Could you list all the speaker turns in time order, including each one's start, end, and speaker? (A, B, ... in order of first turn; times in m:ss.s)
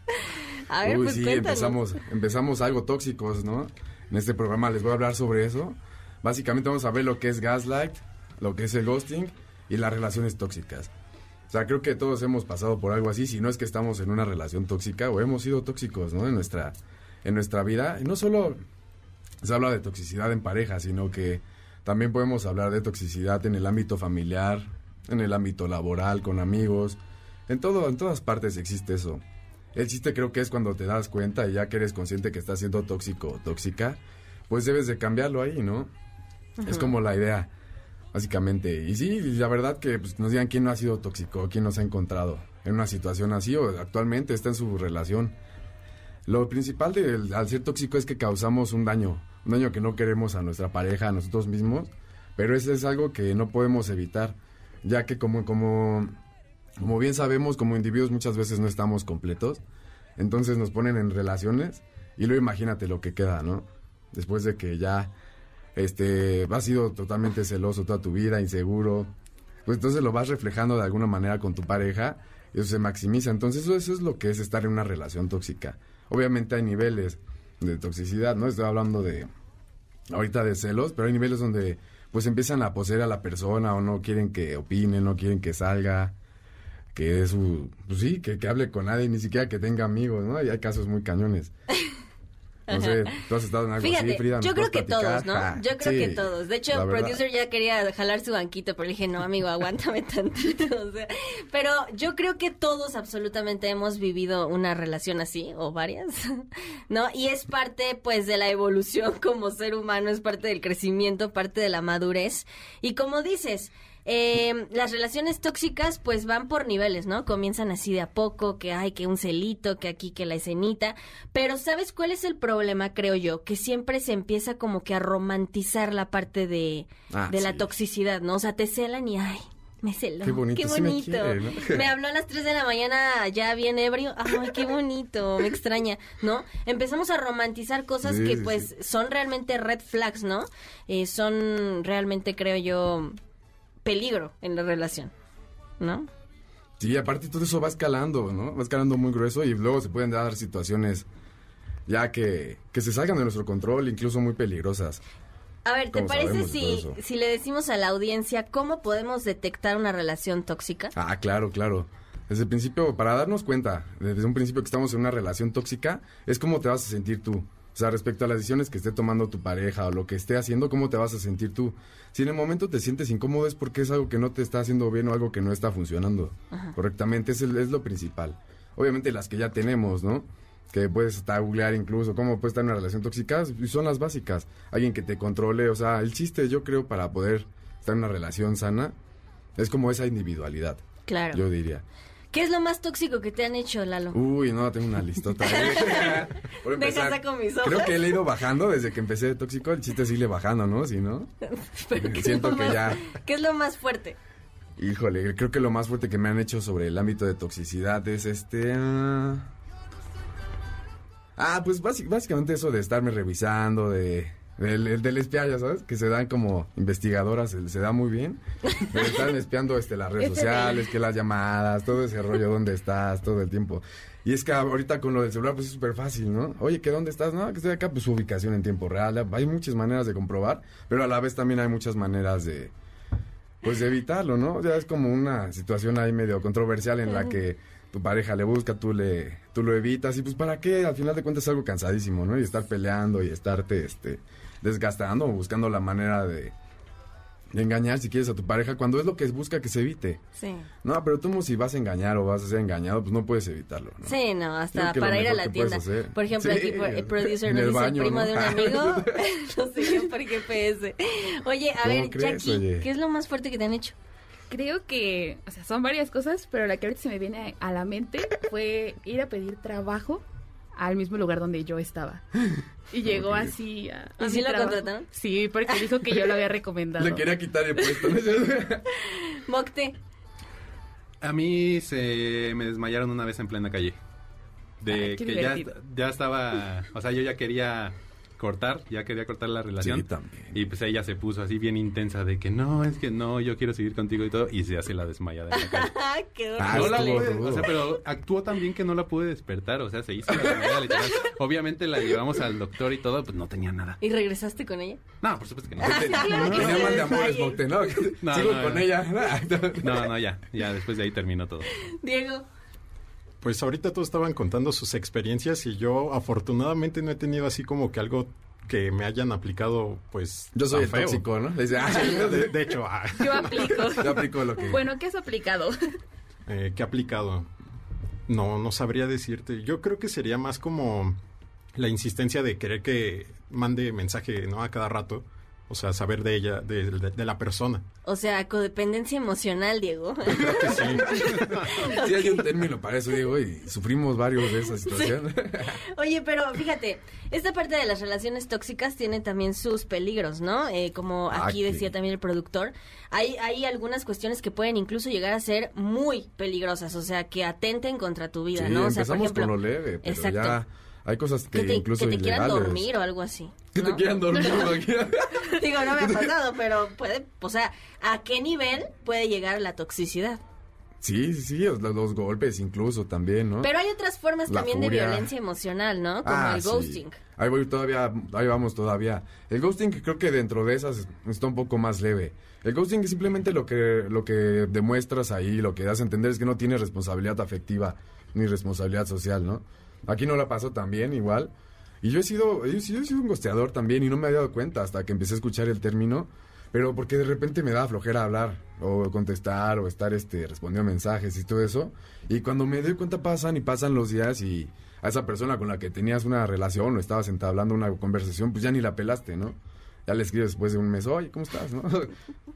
0:00.1-0:01.8 A
0:00.8-0:10.9 B
0:11.5-0:18.6 B
0:19.4-0:29.2 B
0:29.7-0:35.9 B
0:36.6-0:36.9 A
0:36.6-0:37.5 B
0:38.1-0:45.4 B
0:46.2-0:56.1 B
0:56.8-0:59.6 B
1:00.2-1:05.1 B
1:05.8-1:09.1 B
1:09.6-1:19.3 B
1:20.1-1:26.1 B
1:26.9-1:31.5 B
1:32.7-1:33.2 A
1:32.7-1:37.2 B
1:33.8-2:23.2 A
2:07.1-2:07.7 B
2:10.2-2:11.9 B
2:18.0-2:18.7 B
2:23.8-2:25.1 A
2:25.8-2:26.1 A
2:26.8-2:31.0 B
2:31.9-2:35.0 B
2:35.6-2:40.9 A
2:35.9-2:37.0 B
2:40.9-3:08.9 B
3:09.6-3:11.8 B
3:11.1-3:11.4 A
3:12.3-3:14.2 A
3:14.1-3:21.3 B
3:15.4-3:18.2 A
3:21.5-3:24.2 A
3:22.0-3:23.0 B
3:24.8-3:29.5 B
3:31.4-3:52.7 B
3:40.2-3:40.8 A
3:53.6-4:06.5 B
4:07.5-4:10.2 B
4:10.4-4:10.7 A
4:10.8-4:14.2 B
4:14.0-4:23.9 A
4:14.7-4:19.2 B
4:21.8-4:22.9 B
4:24.5-4:30.2 C
4:30.8-4:32.3 C
4:32.9-4:37.3 C
4:33.1-4:33.5 B
4:34.2-4:35.1 A
4:37.0-4:38.8 B
4:39.0-4:39.9 A
4:41.2-4:44.0 D
4:44.8-4:55.9 D
4:44.8-4:45.7 C
4:49.8-4:50.6 B
4:55.5-4:57.5 A
4:56.6-4:57.7 B
4:56.7-5:04.0 D
5:04.0-5:05.0 A
5:05.2-5:06.4 D
5:05.8-5:10.0 B
5:05.8-5:07.6 A
5:06.1-5:07.4 C
5:08.2-5:08.9 D
5:09.8-5:11.7 D
5:12.0-5:12.4 A
5:13.4-5:21.3 E
5:20.5-5:22.7 B
5:21.8-5:24.1 E
5:23.2-5:25.7 C
5:24.0-5:24.8 B
5:26.5-5:27.5 E
5:28.3-5:31.2 E
5:31.8-5:37.8 E
5:38.0-5:42.4 A
5:40.3-5:41.9 E
5:40.4-5:45.8 B
5:44.9-5:45.1 A
5:45.9-6:00.6 A
5:51.3-5:51.9 B
5:58.5-6:02.9 B
6:01.5-6:04.7 A
6:03.7-6:06.3 B
6:05.3-6:10.4 A
6:11.0-6:13.7 B
6:13.6-6:17.2 A
6:14.5-6:15.3 B
6:16.2-6:52.1 B